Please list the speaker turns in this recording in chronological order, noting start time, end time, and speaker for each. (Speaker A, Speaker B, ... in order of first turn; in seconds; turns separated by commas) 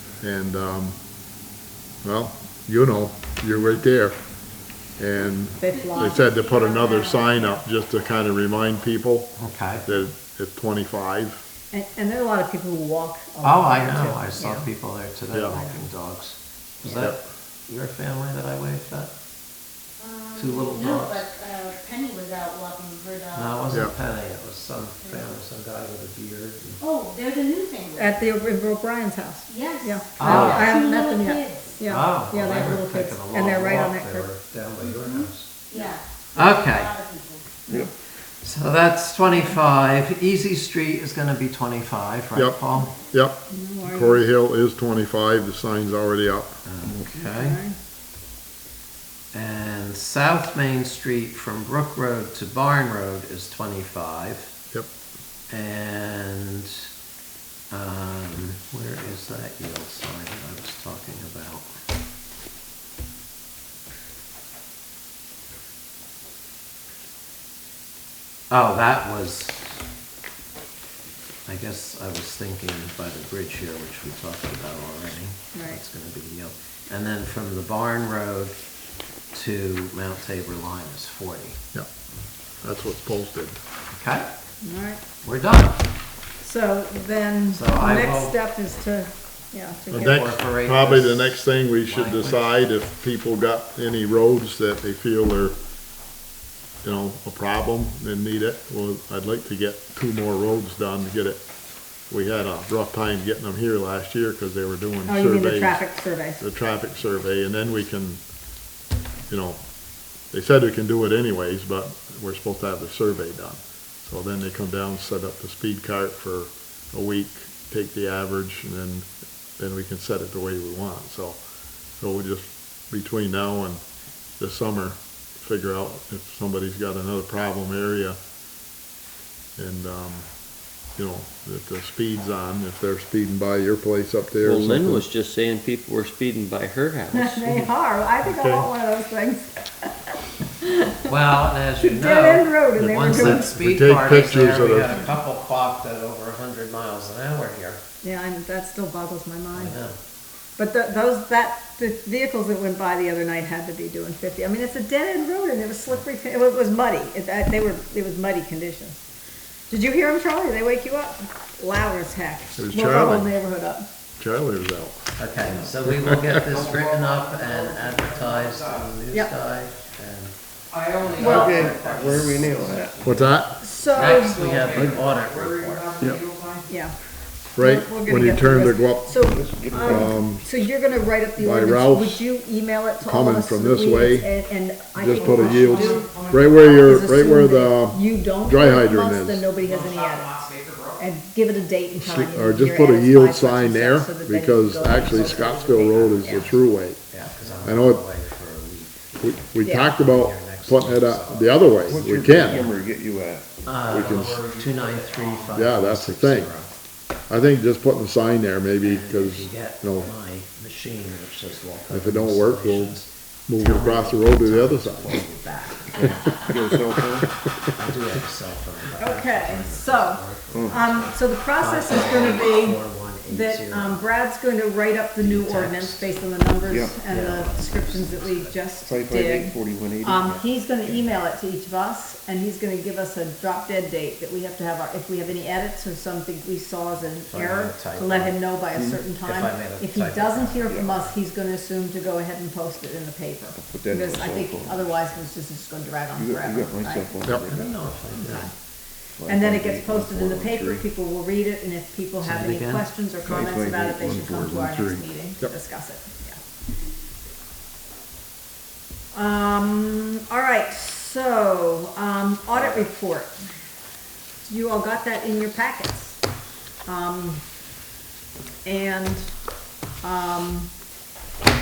Speaker A: 0.2-1.0, Speaker A: 2.0-4.2, Speaker A: 5.0-11.4, Speaker B: 5.6-6.2, Speaker C: 5.7-7.6, Speaker D: 9.4-9.9, Speaker B: 11.7-14.7, Speaker D: 13.4-19.1, Speaker A: 15.3-15.6, Speaker B: 15.5-15.8, Speaker A: 16.9-17.2, Speaker C: 20.0-23.9, Speaker D: 20.3-21.3, Speaker D: 23.3-26.8, Speaker C: 25.0-25.3, Speaker C: 26.8-28.2, Speaker B: 27.9-34.3, Speaker C: 29.5-31.9, Speaker D: 30.2-30.7, Speaker D: 31.9-35.6, Speaker C: 34.8-37.4, Speaker D: 36.3-37.0, Speaker D: 38.4-42.9, Speaker A: 42.3-46.6, Speaker B: 43.5-44.2, Speaker D: 46.6-47.6, Speaker E: 46.8-47.1, Speaker B: 47.1-47.8, Speaker D: 49.3-54.5, Speaker D: 55.5-56.9, Speaker D: 57.7-61.7, Speaker D: 68.5-69.8, Speaker D: 71.5-78.6, Speaker B: 75.5-75.8, Speaker D: 79.3-81.6, Speaker A: 82.6-83.5, Speaker D: 83.9-84.3, Speaker B: 84.6-85.0, Speaker D: 85.2-85.8, Speaker B: 86.4-90.3, Speaker D: 87.5-88.3, Speaker A: 89.9-95.5, Speaker D: 89.9-92.5, Speaker A: 96.8-101.4, Speaker A: 102.1-108.2, Speaker B: 105.0-106.4, Speaker A: 109.3-109.7, Speaker A: 110.3-121.4, Speaker A: 122.0-123.8, Speaker A: 124.4-128.2, Speaker A: 129.6-130.3, Speaker A: 130.9-135.0, Speaker F: 134.4-137.7, Speaker B: 137.1-141.1, Speaker A: 138.2-138.7, Speaker D: 141.1-147.8, Speaker B: 141.8-143.5, Speaker A: 142.8-145.1, Speaker B: 148.0-149.8, Speaker D: 149.5-149.9, Speaker B: 150.6-159.0, Speaker B: 159.7-163.8, Speaker A: 162.6-163.4, Speaker A: 164.2-165.2, Speaker D: 165.2-170.3, Speaker G: 166.5-167.4, Speaker G: 168.0-168.7, Speaker D: 171.0-176.0, Speaker F: 171.0-172.3, Speaker E: 171.2-172.9, Speaker B: 171.2-171.7, Speaker A: 173.0-173.6, Speaker B: 173.6-174.4, Speaker F: 174.0-174.9, Speaker G: 174.2-176.7, Speaker B: 176.7-176.9, Speaker A: 177.5-180.5, Speaker B: 177.6-190.3, Speaker E: 179.3-180.2, Speaker A: 181.4-182.2, Speaker A: 183.0-184.3, Speaker A: 184.9-189.4, Speaker G: 185.2-186.7, Speaker G: 189.7-190.8, Speaker B: 191.0-196.6, Speaker A: 192.0-197.0, Speaker D: 194.9-195.3, Speaker D: 196.0-202.7, Speaker A: 197.6-198.1, Speaker A: 199.2-202.7, Speaker B: 199.6-199.9, Speaker E: 201.8-203.6, Speaker D: 203.6-206.7, Speaker F: 203.8-205.6, Speaker A: 203.9-204.4, Speaker A: 205.5-206.5, Speaker A: 207.3-210.1, Speaker D: 208.8-216.5, Speaker A: 211.9-215.2, Speaker E: 216.3-217.3, Speaker D: 217.7-224.1, Speaker B: 219.0-247.2, Speaker E: 220.5-220.8, Speaker D: 225.2-226.1, Speaker E: 226.7-227.0, Speaker D: 227.0-228.6, Speaker E: 228.8-231.1, Speaker D: 237.2-238.5, Speaker E: 238.7-239.0, Speaker D: 239.2-241.1, Speaker E: 240.6-241.0, Speaker E: 243.6-245.1, Speaker E: 246.1-248.5, Speaker D: 247.4-248.5, Speaker B: 248.1-248.5, Speaker E: 249.2-250.9, Speaker B: 249.3-256.4, Speaker D: 252.2-252.9, Speaker E: 253.2-255.0, Speaker B: 259.1-263.4, Speaker D: 262.5-262.9, Speaker B: 264.4-266.2, Speaker B: 266.8-267.4, Speaker B: 268.6-269.3, Speaker B: 270.0-270.7